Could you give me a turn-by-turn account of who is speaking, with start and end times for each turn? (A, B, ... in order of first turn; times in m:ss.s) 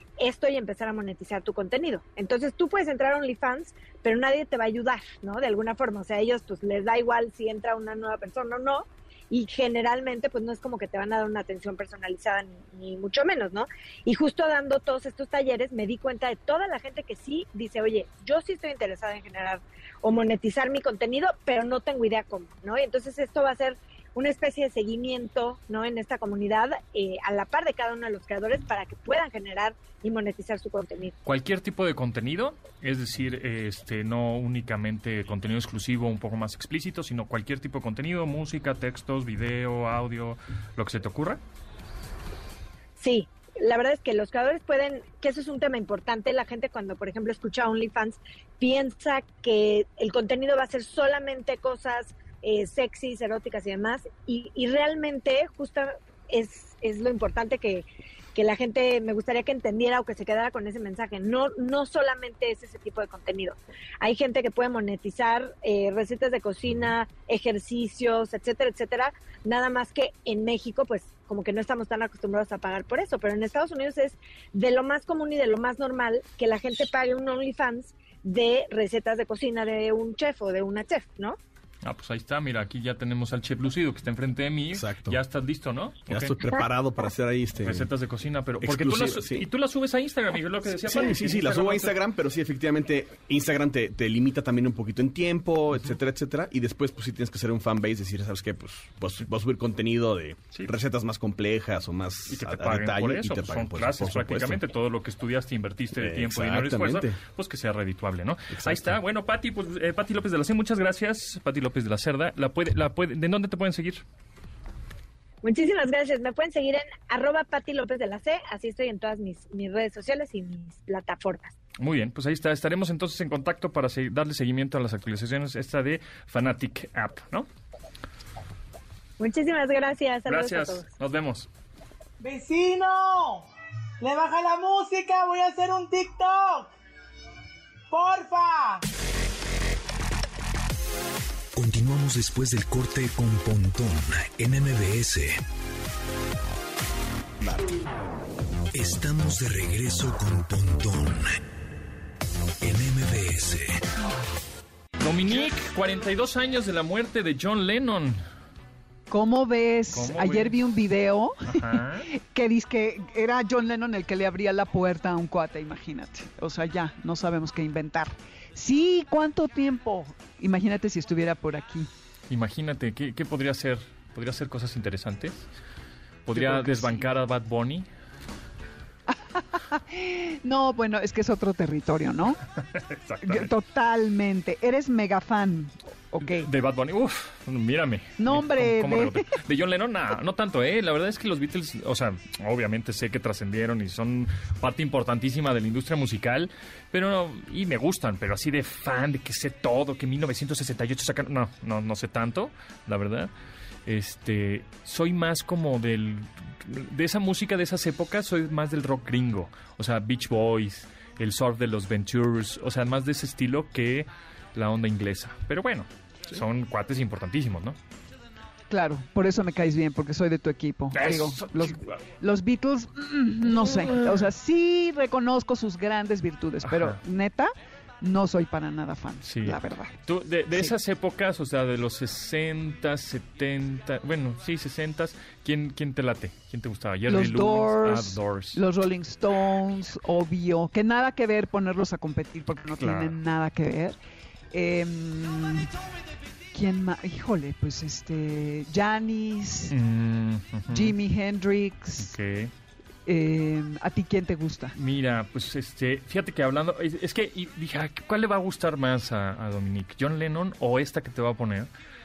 0:00.2-0:31.2 A
0:31.2-0:41.4 B
0:43.0-1:21.4 A
1:21.8-1:26.6 B
1:24.7-1:25.2 C
1:26.1-1:27.9 C
1:27.6-1:32.0 B
1:28.6-1:29.5 C
1:30.8-1:44.6 C
1:42.3-1:54.0 B
1:46.0-1:47.2 C
1:48.5-1:49.0 C
1:55.4-2:01.5 A
2:01.8-2:07.5 B
2:09.2-2:10.8 A
2:10.3-2:11.5 B
2:12.2-2:13.5 D
2:14.0-2:16.7 D
2:17.9-2:18.8 D
2:21.6-2:25.4 E
2:28.7-2:31.4 E
2:32.6-2:33.8 E
2:35.0-2:38.2 B
2:39.1-2:51.9 F
2:39.9-2:40.6 B
2:41.5-2:42.1 B
2:52.3-2:55.4 B
2:56.3-2:57.9 B
2:56.3-2:57.0 F
2:59.1-3:02.4 F
3:02.7-3:03.5 B
3:03.2-3:06.5 F
3:06.2-3:23.3 B
3:08.2-3:09.3 F
3:23.9-3:37.8 B
3:38.7-3:50.0 F
3:40.9-3:42.0 B
3:43.7-3:44.2 B
3:46.6-3:47.0 B
3:49.2-3:58.6 B
3:57.1-4:04.0 F
4:02.8-4:03.2 B
4:04.5-4:05.7 F
4:06.5-4:09.7 F
4:09.7-4:11.0 B
4:10.7-4:12.2 F
4:12.0-4:12.5 B
4:13.1-4:14.8 F
4:14.8-4:21.7 B